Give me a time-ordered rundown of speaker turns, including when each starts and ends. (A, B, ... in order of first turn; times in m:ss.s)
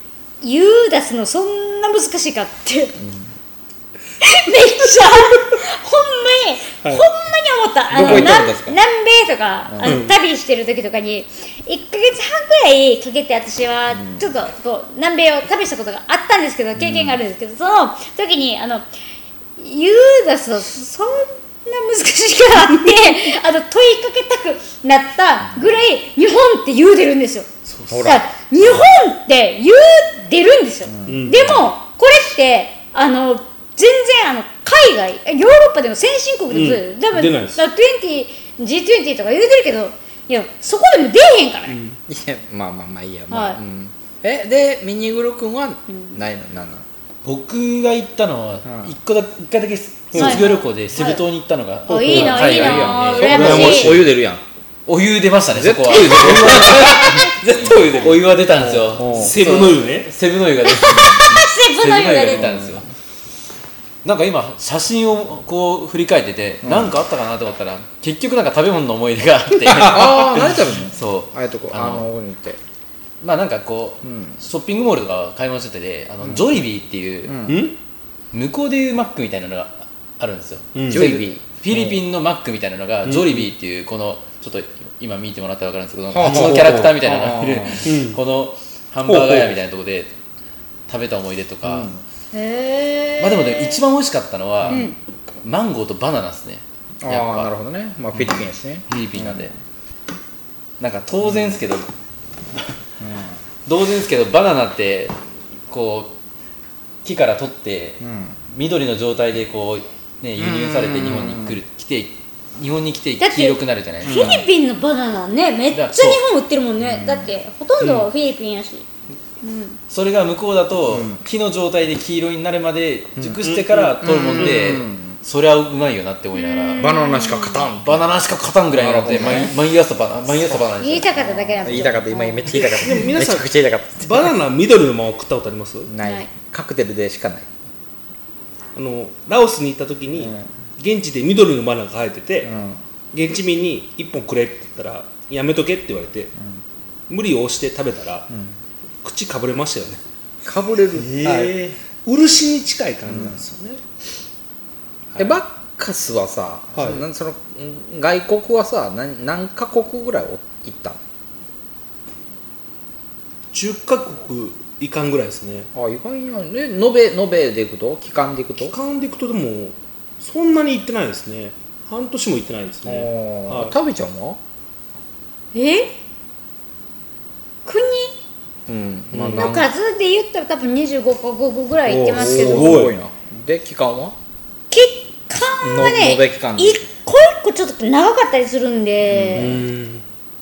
0:00.4-0:03.0 A
0:03.0-0:03.3 B
0:04.2-0:18.8 A
0:07.9-0:08.8 B
0:08.0-0:08.3 C
0:09.7-0:10.0 B
0:09.8-0:10.2 C
0:13.9-0:14.2 B
0:16.8-0:17.2 B
0:19.6-0:27.5 A
0:27.7-0:28.2 C
0:27.9-0:28.8 B
0:28.0-0:41.8 A
0:30.9-0:31.7 B
0:31.1-0:31.5 C
0:36.5-0:37.6 C
0:41.7-0:42.0 C
0:42.1-0:46.8 B
0:43.3-0:43.6 A
0:45.9-0:46.2 A
0:47.2-0:54.0 D
0:48.6-0:48.9 B
0:50.1-0:50.5 C
0:50.2-0:51.2 A
0:51.9-0:54.0 A
0:51.9-0:54.0 C
0:52.1-0:54.4 B
0:54.8-1:02.9 D
0:55.5-0:58.2 B
0:56.2-0:56.6 C
0:58.6-1:00.1 C
0:58.9-0:59.7 B
1:00.6-1:02.5 A
1:00.9-1:01.3 B
1:02.4-1:02.8 B
1:04.0-1:12.1 D
1:06.6-1:06.9 B
1:09.7-1:12.6 B
1:13.2-1:17.4 D
1:14.0-1:14.4 B
1:17.2-1:17.7 B
1:17.5-1:17.8 C
1:18.3-1:30.1 D
1:20.7-1:21.1 C
1:20.9-1:22.0 B
1:23.0-1:23.5 C
1:26.1-1:27.9 B
1:26.2-1:28.2 C
1:29.0-1:29.6 C
1:30.9-1:31.9 D
1:31.6-1:32.0 B
1:32.3-1:33.8 A
1:33.2-1:34.9 D
1:34.7-1:35.0 A
1:35.4-1:37.5 D
1:37.0-1:39.5 B
1:38.1-1:39.5 D
1:40.8-1:41.9 D
1:41.2-1:41.6 B
1:43.0-1:43.4 B
1:43.6-1:45.1 D
1:45.7-1:46.1 D
1:47.0-1:54.3 D
1:48.0-1:48.4 B
1:50.4-1:51.6 B
1:53.2-1:58.8 A
1:54.0-1:54.5 B
1:55.7-1:56.2 D
1:56.8-1:57.4 B
1:57.8-1:58.1 C
1:59.4-1:59.8 A
1:59.9-2:06.9 D
2:00.9-2:01.2 B
2:03.2-2:05.2 B
2:06.3-2:07.7 A
2:06.8-2:08.0 B
2:07.8-2:11.8 D
2:08.7-2:09.5 B
2:10.8-2:12.6 A
2:11.1-2:14.3 B
2:12.5-2:15.9 C
2:15.8-2:17.5 B
2:16.0-2:16.3 A
2:18.7-2:22.5 C
2:20.2-2:20.5 B
2:22.4-2:22.8 B
2:23.1-2:26.3 C
2:27.1-2:28.3 C
2:28.3-2:28.6 B
2:29.0-2:30.0 C
2:30.4-2:31.5 B
2:31.2-2:33.8 C
2:33.1-2:33.4 B
2:35.1-2:35.4 C
2:35.2-2:41.0 B
2:36.7-2:37.0 C
2:43.5-2:45.7 C
2:45.7-2:48.8 B
2:48.6-2:53.8 C
2:52.8-2:54.4 B
2:55.5-2:55.9 A
2:57.6-2:58.2 A
2:58.7-2:59.7 B
2:59.1-2:59.5 C
2:59.4-3:02.8 A
3:01.9-3:02.9 C
3:02.1-3:04.2 B
3:04.7-3:09.6 A
3:05.6-3:06.8 B
3:09.0-3:09.6 B
3:09.3-3:10.0 C